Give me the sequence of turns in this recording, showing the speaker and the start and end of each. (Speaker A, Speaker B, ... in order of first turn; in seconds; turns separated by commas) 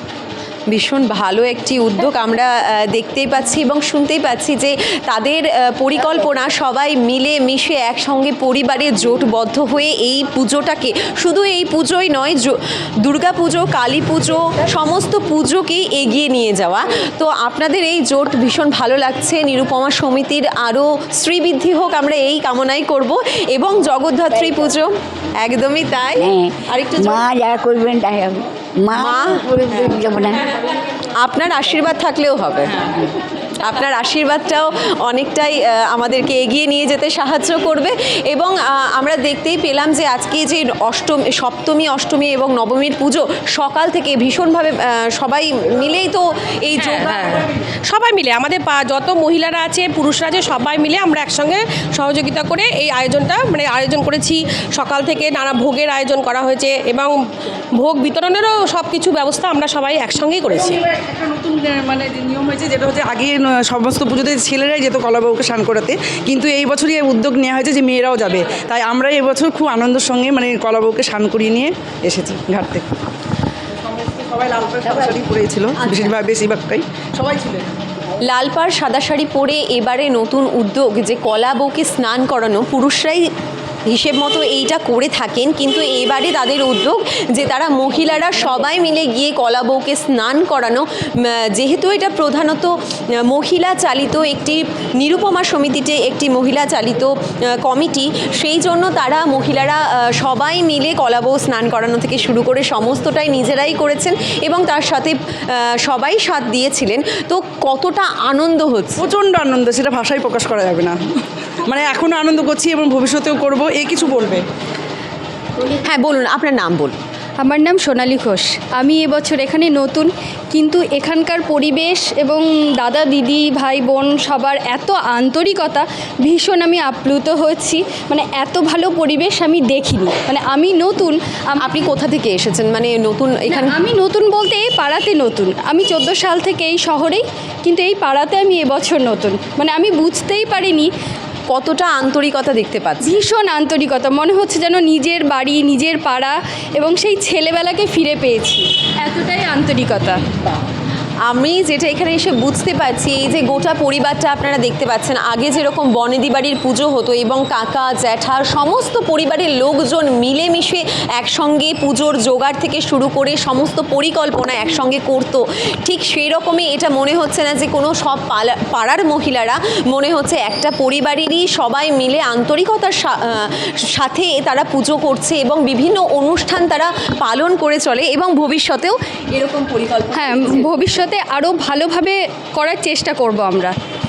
Speaker A: 0.7-27.3, Speaker B: 26.2-30.4, Speaker A: 28.9-29.4, Speaker A: 31.2-33.1, Speaker A: 33.6-47.4, Speaker C: 46.8-57.1, Speaker C: 57.8-60.8, Speaker D: 60.9-72.9, Speaker D: 73.9-77.7, Speaker A: 75.8-76.1, Speaker A: 78.2-83.3, Speaker A: 83.9-92.7, Speaker A: 93.3-109.0, Speaker D: 109.0-111.0, Speaker D: 111.7-114.4, Speaker A: 115.8-117.0, Speaker E: 117.4-131.7, Speaker A: 131.6-133.8, Speaker E: 133.5-140.9, Speaker A: 141.5-143.2, Speaker E: 143.0-150.2, Speaker A: 151.3-180.8, Speaker E: 180.2-183.8